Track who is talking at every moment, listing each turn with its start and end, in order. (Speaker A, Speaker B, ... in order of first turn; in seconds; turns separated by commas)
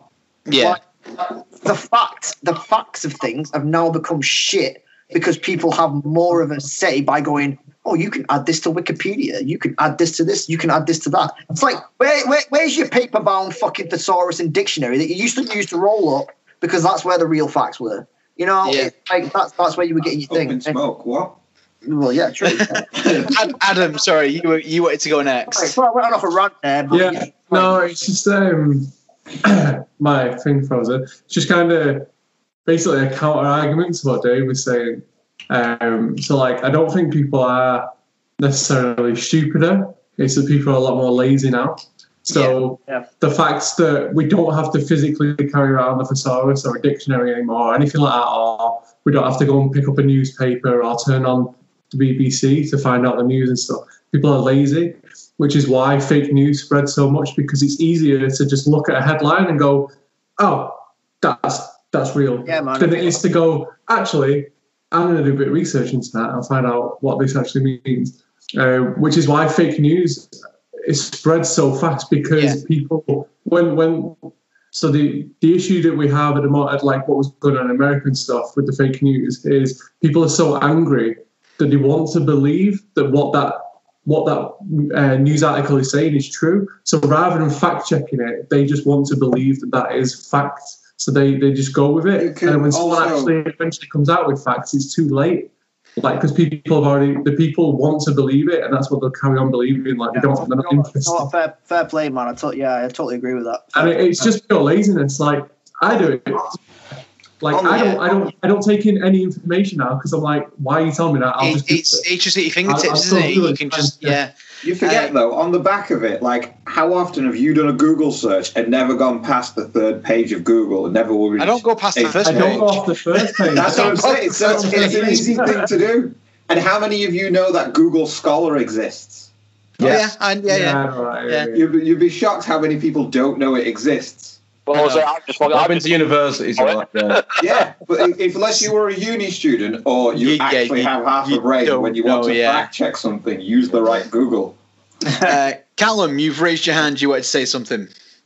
Speaker A: 0.5-0.8, Speaker B: 0.6-20.8, Speaker A: 18.6-18.9, Speaker C: 20.3-21.4, Speaker B: 21.8-23.3, Speaker A: 22.4-25.7, Speaker B: 25.5-27.8, Speaker D: 26.9-28.9, Speaker D: 29.4-32.1, Speaker D: 32.6-101.3, Speaker B: 62.5-63.2, Speaker C: 92.1-93.3, Speaker B: 100.1-104.1, Speaker D: 103.7-106.6, Speaker D: 107.4-112.1, Speaker C: 107.5-108.1, Speaker A: 111.4-115.1, Speaker D: 112.6-114.2, Speaker C: 114.6-122.8, Speaker A: 121.4-125.5, Speaker D: 122.2-125.5, Speaker C: 123.5-129.3, Speaker E: 129.8-130.1, Speaker A: 129.8-131.5, Speaker D: 130.4-131.6, Speaker C: 131.5-134.4, Speaker F: 134.7-135.9, Speaker A: 134.7-135.0, Speaker E: 135.5-137.2, Speaker F: 136.6-137.4, Speaker C: 137.4-144.6, Speaker A: 140.1-142.7, Speaker A: 145.2-147.9